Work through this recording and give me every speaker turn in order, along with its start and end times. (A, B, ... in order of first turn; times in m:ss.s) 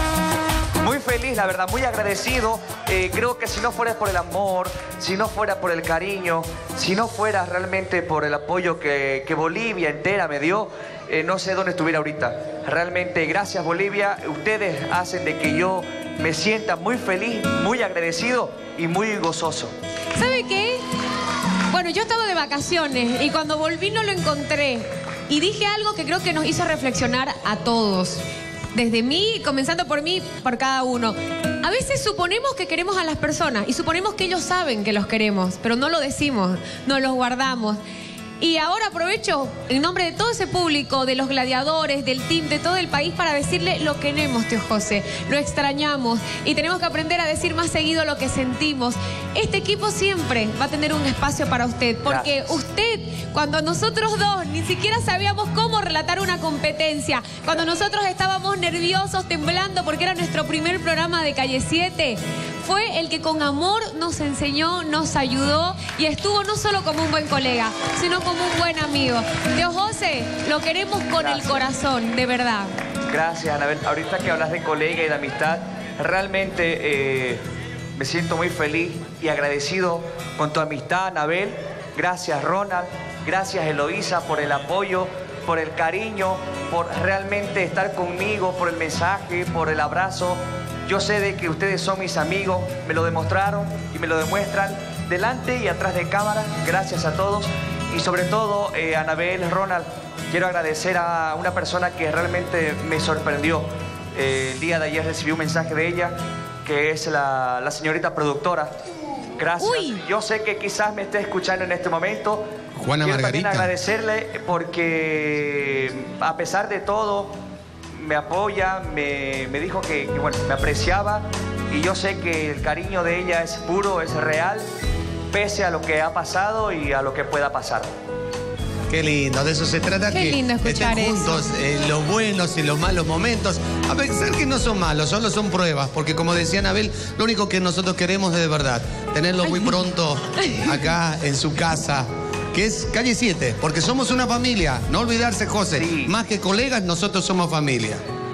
0:00.8-0:19.7 A
0:20.1-0:20.8 B
0:21.7-0:28.2 B
0:28.7-0:37.8 B
0:38.4-1:12.7 B
0:52.1-0:52.6 A
1:11.2-1:11.7 A
1:13.1-1:17.4 A
1:17.9-1:48.7 A
1:49.4-1:52.4 A
1:49.6-1:50.0 B
1:52.8-1:53.7 C
1:53.0-1:57.3 A
1:57.9-2:04.7 A
2:05.3-2:07.9 A
2:08.9-2:28.0 C
2:10.1-2:11.4 B
2:25.7-2:26.1 A